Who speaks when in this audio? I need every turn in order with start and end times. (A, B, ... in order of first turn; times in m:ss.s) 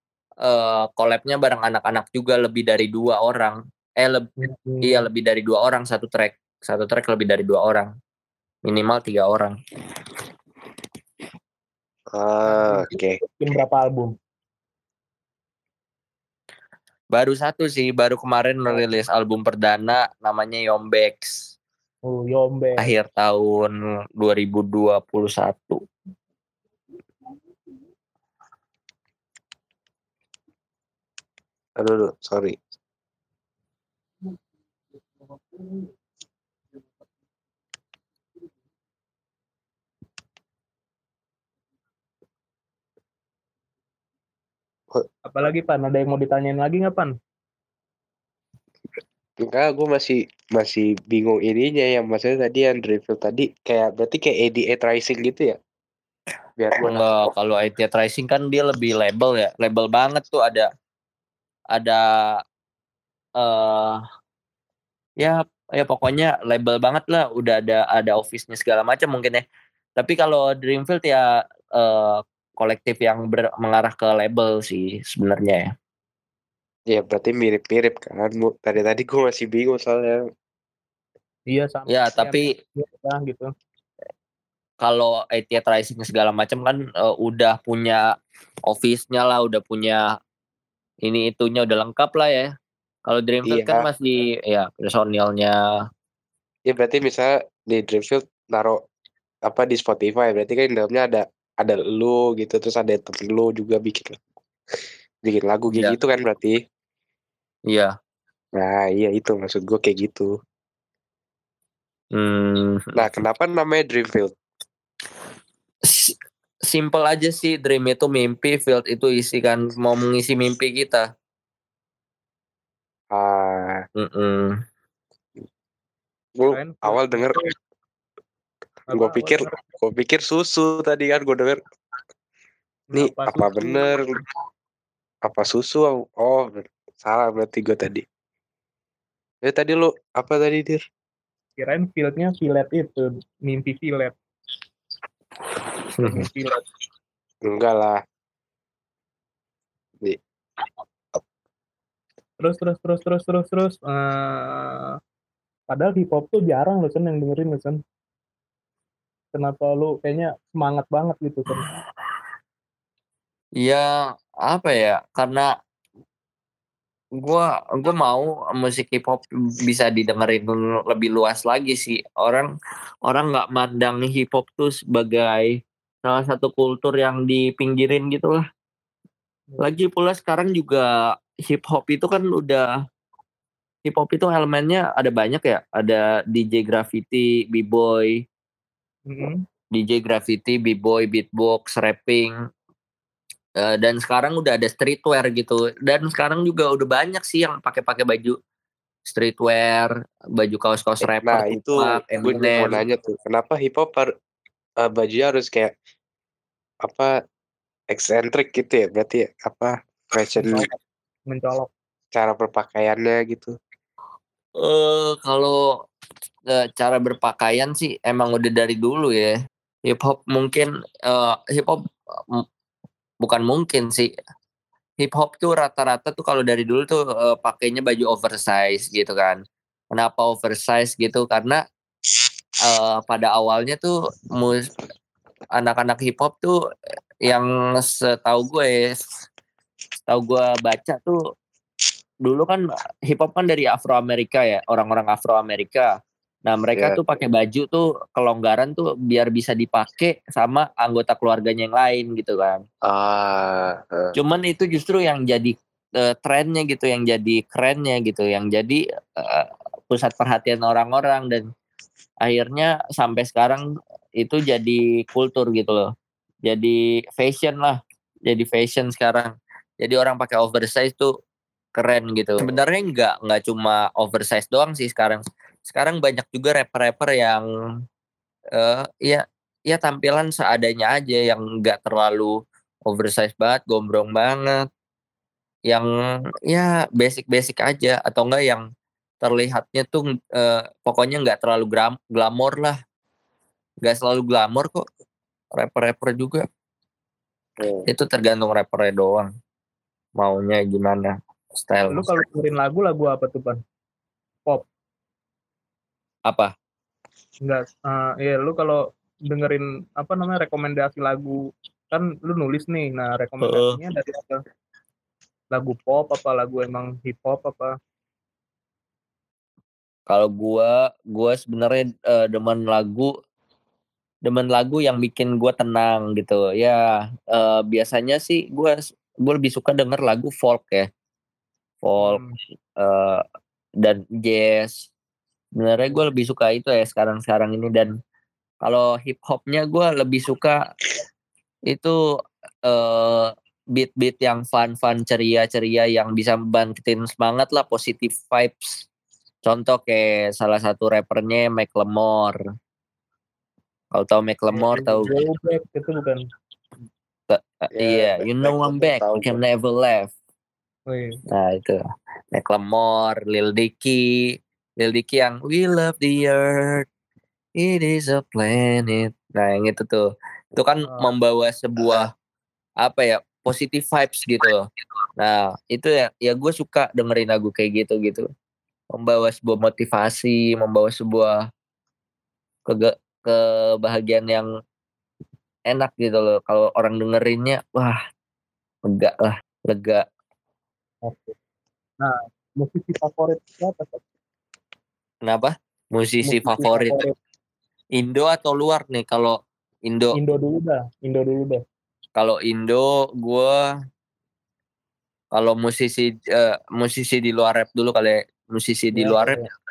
0:00.4-0:04.3 A
0:04.4-0:05.1 B
0:04.8-0:07.9 A
0:08.6-0:09.6 A
0:12.1-0:13.2 C
0:12.4-0:14.1 B
0:17.1-0:21.4 A
0:18.7-0:19.0 B
0:22.0-0:22.9 B
0:22.8-0:25.8 A
0:31.8-0:32.6 C
0:45.3-0:47.1 B
0:49.4-0:55.6 C
0:56.6-0:57.3 C
0:56.8-1:00.7 A
1:01.7-1:02.4 A
1:03.4-1:04.0 A
1:05.2-1:09.4 A
1:10.0-1:15.7 A
1:16.9-1:20.2 C
1:21.5-1:23.5 B
1:21.9-1:22.5 A
1:24.8-1:28.0 A
1:28.7-1:30.0 A
1:31.0-1:32.5 A
1:33.1-1:35.6 A
1:33.4-1:33.8 C
1:36.7-1:38.8 C
1:39.4-1:44.2 C
1:45.2-1:46.6 C
1:47.7-1:47.9 A
1:48.6-1:50.3 C
1:52.1-1:53.0 A
1:53.0-1:54.3 C
1:55.8-1:56.1 A
1:56.7-2:01.0 A
2:03.1-2:03.8 C
2:04.0-2:04.5 A
2:06.4-2:07.4 C
2:06.5-2:07.4 B
2:08.9-2:09.6 B
2:08.9-2:11.6 C
2:12.9-2:13.9 B
2:12.9-2:14.1 C
2:15.2-2:18.0 C
2:19.4-2:20.8 C
2:21.6-2:24.1 B
2:25.9-2:26.2 A
2:26.0-2:26.6 B
2:27.4-2:28.0 C
2:32.4-2:35.0 B
2:35.7-2:37.8 B
2:39.3-2:41.7 B
2:43.6-2:43.9 A
2:44.4-2:45.5 A
2:47.2-2:52.5 A
2:53.0-2:58.4 A
2:59.6-3:00.9 A
3:01.4-3:02.7 A
3:03.8-3:08.2 A
3:09.1-3:09.4 B
3:09.7-3:12.3 A
3:13.6-3:18.4 A
3:19.1-3:22.8 A
3:21.0-3:24.1 C
3:24.8-3:25.7 C
3:26.8-3:27.1 C
3:27.9-3:30.7 C
3:30.4-3:30.8 B
3:31.3-3:31.7 B
3:32.1-3:33.5 C
3:34.6-3:35.6 A
3:36.5-3:39.3 A
3:39.8-3:42.4 A
3:43.2-3:44.1 A
3:45.0-3:49.4 A
3:49.9-3:51.6 A
3:52.6-3:54.7 A
3:55.6-3:56.6 A
3:57.2-3:59.0 A
4:00.1-4:01.2 A
4:02.2-4:05.9 A
4:06.4-4:12.6 A
4:12.8-4:14.1 C
4:14.1-4:21.5 A
4:22.2-4:23.6 A
4:24.2-4:25.9 A
4:26.4-4:31.1 A
4:31.8-4:37.4 A
4:38.6-4:42.3 A
4:42.9-4:44.6 A
4:46.5-4:48.6 A
4:49.2-4:52.8 A
4:53.8-4:54.8 A
4:55.6-4:56.4 A
4:57.6-4:57.8 C
4:57.9-4:59.3 A
5:00.2-5:02.1 A
5:01.9-5:03.6 B
5:06.3-5:06.5 A
5:07.4-5:11.4 B
5:11.9-5:14.4 B
5:13.4-5:13.8 A
5:15.5-5:17.7 B
5:20.1-5:23.1 A
5:24.2-5:30.9 A
5:31.8-5:32.2 A
5:32.0-5:32.4 B
5:32.8-5:33.2 A
5:33.8-5:34.9 A
5:35.6-5:37.9 A
5:38.6-5:40.6 A
5:41.7-5:42.0 A
5:42.6-5:48.8 A
5:49.4-5:52.4 A
5:53.9-5:55.1 A
5:54.5-5:56.2 B
5:57.3-6:00.1 A
5:57.7-5:59.4 C
6:00.9-6:01.2 B
6:01.3-6:01.8 A
6:02.3-6:06.8 A
6:07.6-6:12.1 A
6:12.8-6:14.6 A
6:15.2-6:18.3 A
6:18.9-6:21.4 A
6:22.7-6:24.5 A
6:25.7-6:28.0 A
6:28.9-6:30.0 A
6:31.0-6:31.3 B
6:32.0-6:34.0 B
6:35.2-6:37.0 A
6:36.2-6:37.1 B
6:38.0-6:40.1 A
6:40.1-6:41.6 B
6:42.2-6:43.6 A
6:45.3-6:49.4 A
6:48.9-6:49.4 B